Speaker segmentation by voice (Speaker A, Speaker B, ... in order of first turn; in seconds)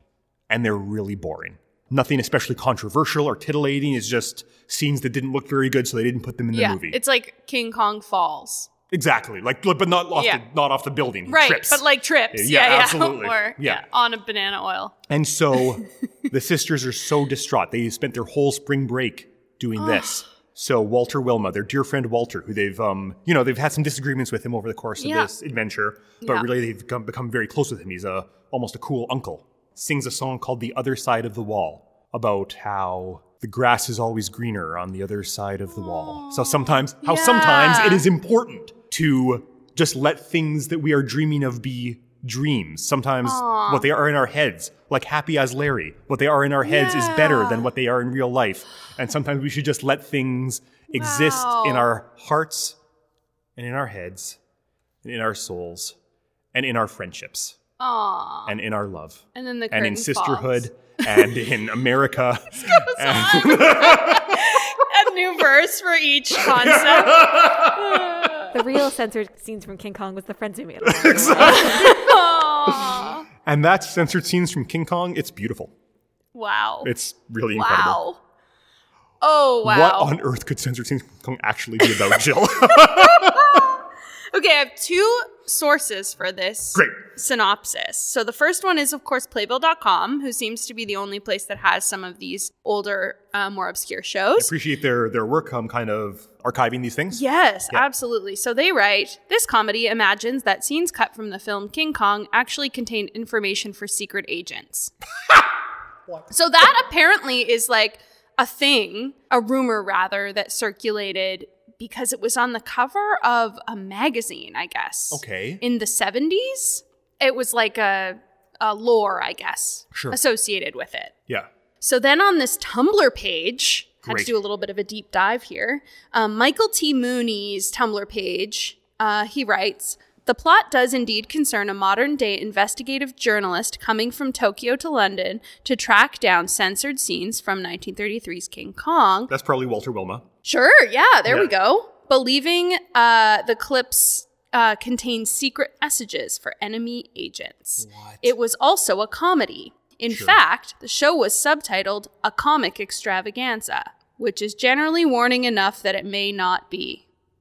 Speaker A: 0.5-7.0, 8.9-13.8, 15.1-52.8, 53.6-54.4, 55.0-56.0, 56.5-57.6, 58.5-64.5, 66.4-68.3, 70.8-75.7, 76.8-78.0, 79.6-83.7, 86.7-87.0, 94.4-97.8, 105.2-105.5, 115.1-115.6, 119.9-120.2, 124.0-124.3, 139.3-140.3, 141.3-141.5, 147.8-148.3, 150.1-150.4
Speaker B: 6.5-8.7, 10.2-10.4, 11.3-15.0, 19.8-20.2, 25.0-25.3, 26.2-26.5, 35.8-38.1, 43.2-43.9, 46.6-47.7, 50.9-51.9, 57.8-58.5, 59.3-60.6, 62.6-68.5, 71.4-73.2, 76.3-76.9, 77.5-78.2, 79.2-80.1, 82.7-94.5, 97.1-104.9, 106.3-121.1, 121.8-139.3, 140.4-157.1
Speaker C: 68.5-72.0